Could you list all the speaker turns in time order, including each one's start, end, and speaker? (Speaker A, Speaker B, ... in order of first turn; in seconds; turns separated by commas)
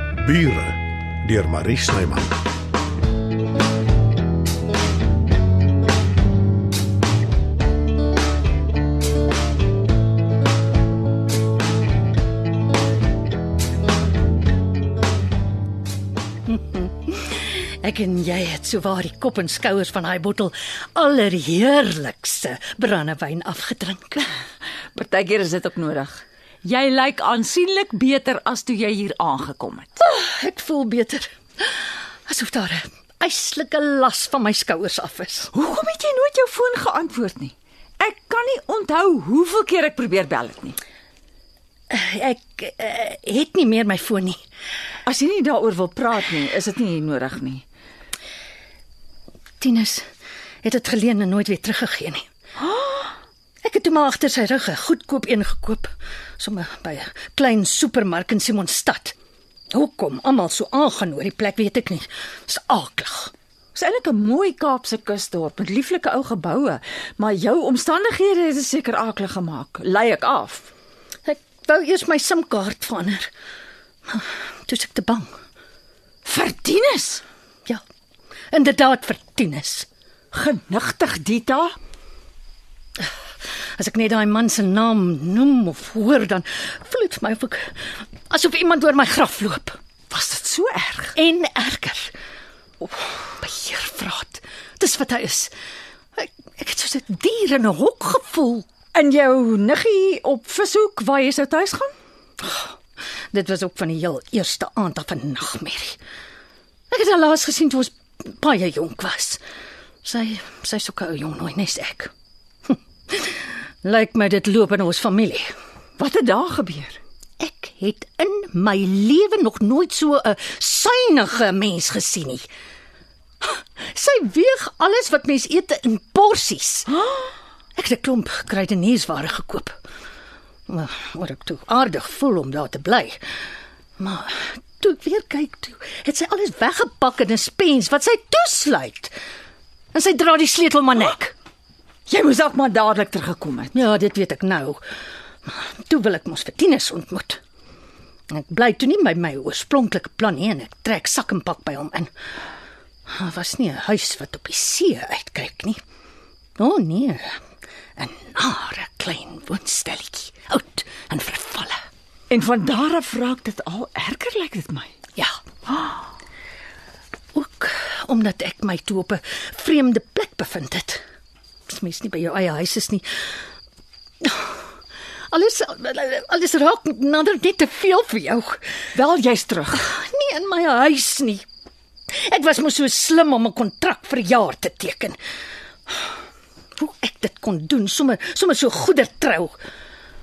Speaker A: 0.2-2.3, Speaker B: 16.5-24.3, Speaker C: 24.9-29.9, Speaker B: 30.0-35.5, Speaker C: 35.5-40.8, Speaker B: 41.9-44.4, Speaker C: 45.0-47.6, Speaker B: 49.6-50.1, Speaker B: 50.6-52.2, Speaker C: 52.6-53.1, Speaker B: 53.6-59.1, Speaker B: 59.7-63.3, Speaker C: 63.7-70.7, Speaker B: 71.2-73.3, Speaker B: 74.1-75.3, Speaker C: 76.2-77.2, Speaker B: 78.5-79.9, Speaker C: 80.3-81.8, Speaker B: 83.8-87.8, Speaker B: 88.3-89.8, Speaker C: 90.1-91.2, Speaker B: 91.2-92.1, Speaker B: 92.8-95.5, Speaker B: 96.2-98.7, Speaker C: 98.9-101.9, Speaker B: 102.4-102.7, Speaker B: 103.3-106.0, Speaker B: 106.9-109.4, Speaker B: 110.0-112.1, Speaker B: 112.7-115.5, Speaker C: 116.0-117.0, Speaker B: 117.4-122.5, Speaker B: 123.4-126.9, Speaker B: 127.8-129.8, Speaker B: 130.7-133.2, Speaker B: 134.0-139.1, Speaker B: 139.9-141.3, Speaker C: 142.1-143.8, Speaker B: 143.7-144.8, Speaker B: 145.4-147.4, Speaker B: 148.3-152.1, Speaker B: 153.1-155.8, Speaker B: 156.6-157.4, Speaker B: 158.0-161.8, Speaker C: 162.3-164.9, Speaker B: 167.3-171.0, Speaker B: 171.7-173.1, Speaker B: 174.2-174.6, Speaker B: 175.3-178.6, Speaker C: 178.9-179.8, Speaker B: 179.7-181.4, Speaker B: 182.2-185.2, Speaker B: 186.8-189.6